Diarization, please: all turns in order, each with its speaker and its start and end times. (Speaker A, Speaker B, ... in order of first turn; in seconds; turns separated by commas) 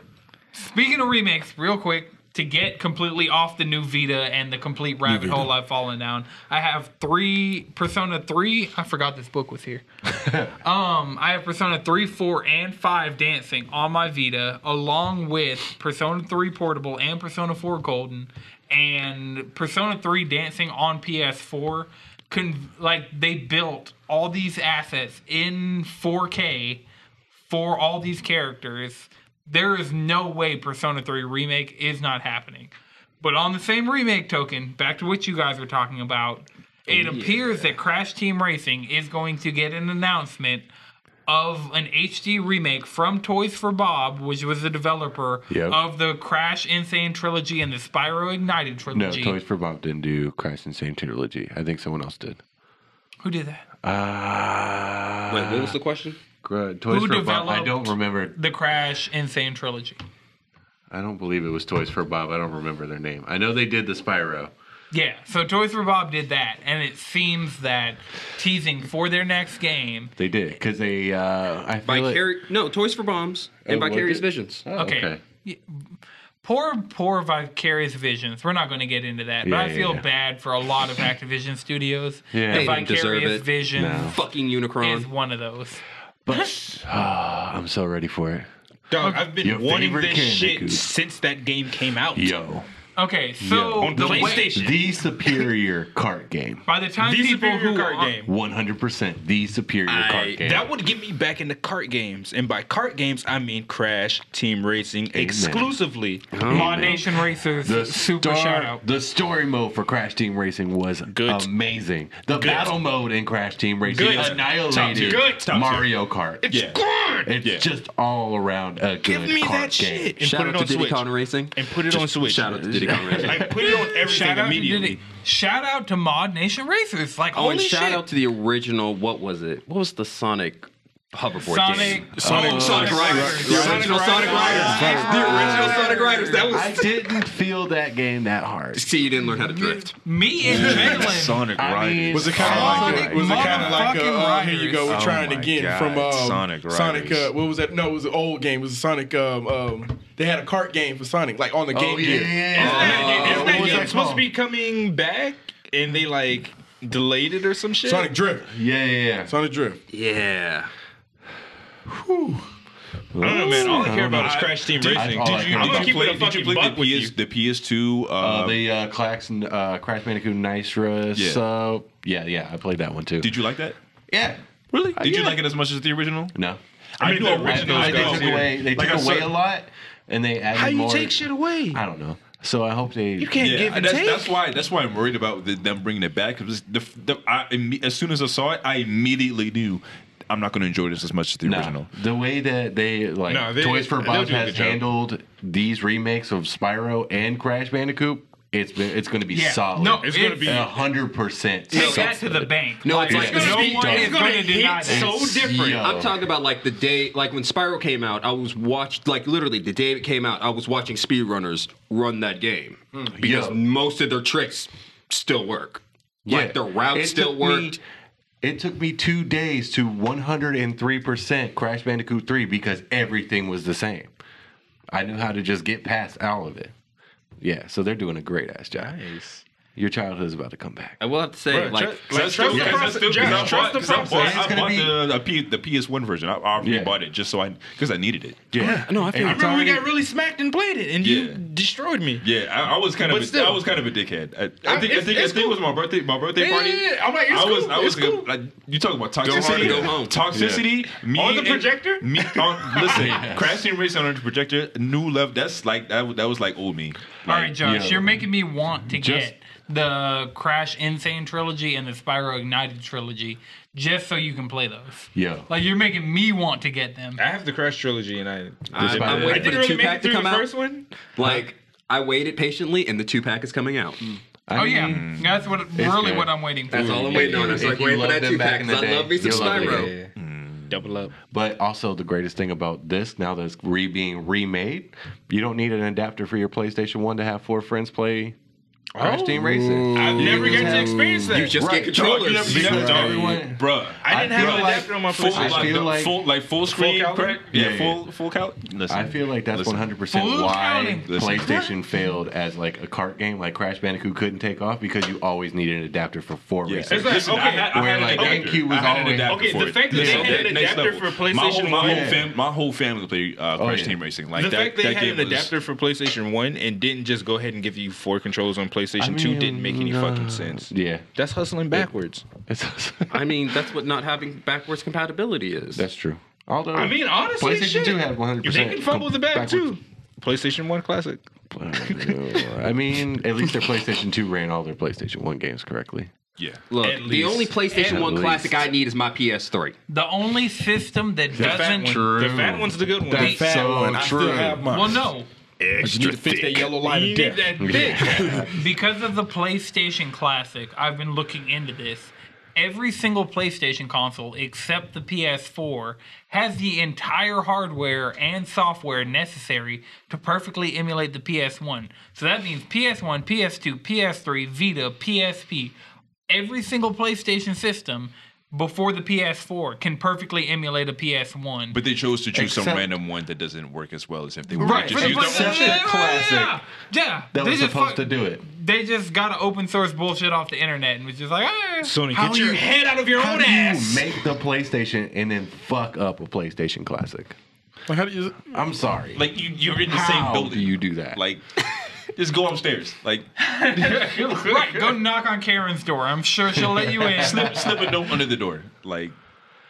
Speaker A: 0.5-9.8, Speaker B: 5.1-5.5, Speaker A: 10.6-26.8, Speaker A: 27.4-40.7, Speaker C: 37.0-37.6, Speaker A: 41.3-49.4, Speaker B: 45.5-45.8, Speaker B: 48.9-52.4, Speaker A: 53.2-53.6, Speaker B: 53.8-55.8, Speaker C: 55.3-56.2, Speaker B: 56.4-58.4, Speaker A: 56.9-60.0, Speaker B: 60.9-64.5, Speaker A: 64.9-70.1, Speaker B: 70.2-72.2, Speaker C: 71.8-74.6, Speaker B: 73.6-75.2, Speaker A: 74.7-84.2, Speaker B: 79.4-80.0, Speaker B: 82.3-82.8, Speaker C: 82.5-83.5, Speaker B: 83.8-84.2, Speaker C: 84.1-85.1, Speaker A: 84.8-85.8, Speaker B: 86.2-88.5, Speaker D: 88.9-92.4, Speaker B: 89.4-90.9, Speaker B: 92.1-92.7, Speaker A: 93.0-94.6, Speaker B: 93.4-96.6, Speaker D: 93.8-94.9, Speaker A: 96.7-98.1, Speaker D: 97.0-98.3, Speaker B: 98.2-100.7, Speaker C: 99.9-100.4, Speaker D: 100.4-106.3, Speaker B: 105.1-105.7, Speaker C: 106.3-106.9, Speaker B: 106.4-116.5, Speaker A: 106.5-108.8, Speaker D: 111.0-111.5, Speaker D: 112.3-112.8, Speaker D: 113.8-115.5, Speaker E: 113.9-115.9, Speaker D: 116.4-117.3, Speaker E: 116.5-116.8, Speaker B: 117.2-120.1, Speaker E: 117.4-117.7, Speaker D: 119.0-125.0, Speaker C: 120.2-123.5, Speaker B: 122.8-123.5, Speaker A: 123.5-128.0, Speaker C: 127.3-137.1, Speaker A: 131.4-136.4, Speaker B: 132.2-133.5, Speaker D: 132.2-134.9, Speaker F: 132.2-132.6, Speaker F: 133.4-135.9, Speaker B: 134.4-138.9, Speaker C: 138.7-139.9, Speaker A: 139.7-141.4, Speaker E: 140.4-144.0, Speaker F: 140.5-141.1, Speaker B: 140.5-143.6, Speaker F: 142.1-152.7, Speaker A: 142.4-145.0, Speaker E: 144.8-147.3, Speaker B: 151.7-154.3, Speaker D: 152.5-158.1, Speaker C: 152.6-153.8, Speaker F: 157.8-158.6, Speaker B: 158.5-159.3, Speaker F: 159.2-159.8, Speaker C: 159.9-160.7, Speaker B: 163.1-166.0, Speaker D: 163.2-167.1, Speaker E: 163.6-168.6, Speaker B: 168.2-173.3, Speaker E: 171.1-171.4, Speaker E: 173.2-173.8, Speaker B: 174.1-174.4, Speaker E: 174.7-176.3, Speaker B: 175.0-175.3, Speaker B: 176.3-176.6, Speaker D: 177.0-179.3, Speaker E: 177.0-179.3, Speaker B: 177.4-183.4, Speaker D: 180.5-181.8, Speaker D: 183.2-184.4, Speaker E: 183.4-191.9, Speaker B: 191.4-206.2, Speaker D: 193.2-194.8, Speaker A: 199.3-200.6, Speaker D: 200.0-200.8, Speaker A: 201.7-205.2, Speaker C: 201.7-202.1, Speaker C: 202.8-204.0, Speaker D: 203.1-205.9, Speaker C: 205.8-217.8, Speaker B: 212.9-213.6, Speaker B: 216.2-217.8, Speaker B: 218.4-224.1, Speaker B: 224.9-226.7, Speaker B: 227.4-229.0, Speaker D: 228.7-229.4, Speaker B: 229.7-231.0, Speaker C: 231.0-232.5, Speaker D: 231.5-234.6, Speaker E: 232.1-238.6, Speaker B: 232.5-235.0, Speaker B: 236.6-236.9, Speaker B: 238.5-239.8, Speaker D: 238.6-242.2, Speaker C: 238.6-239.5, Speaker E: 241.0-241.4, Speaker E: 242.2-257.1, Speaker D: 242.9-243.6, Speaker D: 244.6-245.6, Speaker D: 246.3-248.3, Speaker C: 249.2-250.2, Speaker D: 249.2-249.9, Speaker B: 250.3-250.7, Speaker D: 251.1-253.1, Speaker B: 252.8-253.6, Speaker B: 257.2-258.2, Speaker A: 257.2-267.2, Speaker B: 258.9-259.3, Speaker B: 265.1-265.4, Speaker D: 267.2-271.4, Speaker C: 268.7-270.5, Speaker B: 268.7-269.6, Speaker C: 271.1-274.0, Speaker B: 274.5-280.0, Speaker A: 274.5-277.4, Speaker E: 274.7-275.2, Speaker C: 276.7-279.9, Speaker D: 276.7-277.7, Speaker D: 279.2-280.1, Speaker E: 280.1-280.8, Speaker D: 280.7-281.1, Speaker B: 281.2-288.4, Speaker D: 288.9-291.6, Speaker B: 289.0-296.2, Speaker C: 291.3-293.0, Speaker E: 291.9-299.9, Speaker D: 294.0-296.0, Speaker D: 296.6-297.4, Speaker B: 297.5-298.0, Speaker B: 298.9-310.4, Speaker A: 300.1-301.1, Speaker E: 301.1-301.7, Speaker E: 306.6-315.5, Speaker D: 306.9-308.6, Speaker D: 309.2-312.2, Speaker B: 311.8-312.3, Speaker B: 313.5-314.0, Speaker D: 314.3-322.3, Speaker B: 319.0-321.0, Speaker B: 321.7-323.3, Speaker C: 323.1-325.8, Speaker B: 325.7-329.7, Speaker D: 326.7-331.2, Speaker B: 331.5-336.1, Speaker D: 331.8-332.5, Speaker E: 336.4-336.7, Speaker D: 336.7-337.6, Speaker C: 336.7-339.8, Speaker A: 337.7-338.2, Speaker B: 337.8-338.6, Speaker A: 339.9-342.1, Speaker D: 341.3-344.5, Speaker B: 341.4-344.7, Speaker F: 343.1-345.0, Speaker A: 344.7-345.3, Speaker D: 345.6-348.5, Speaker C: 345.7-346.6, Speaker F: 345.8-348.4, Speaker B: 347.6-348.5, Speaker A: 348.5-365.7, Speaker A: 366.3-371.8, Speaker E: 371.7-375.7, Speaker B: 372.3-372.9, Speaker B: 374.6-376.6, Speaker A: 374.6-381.9, Speaker D: 374.7-375.8, Speaker B: 377.3-378.4, Speaker D: 381.8-384.2, Speaker B: 382.2-387.4, Speaker F: 387.9-388.5, Speaker B: 388.5-391.2, Speaker E: 389.1-394.6, Speaker A: 393.4-397.6, Speaker E: 397.1-399.1, Speaker B: 397.4-397.8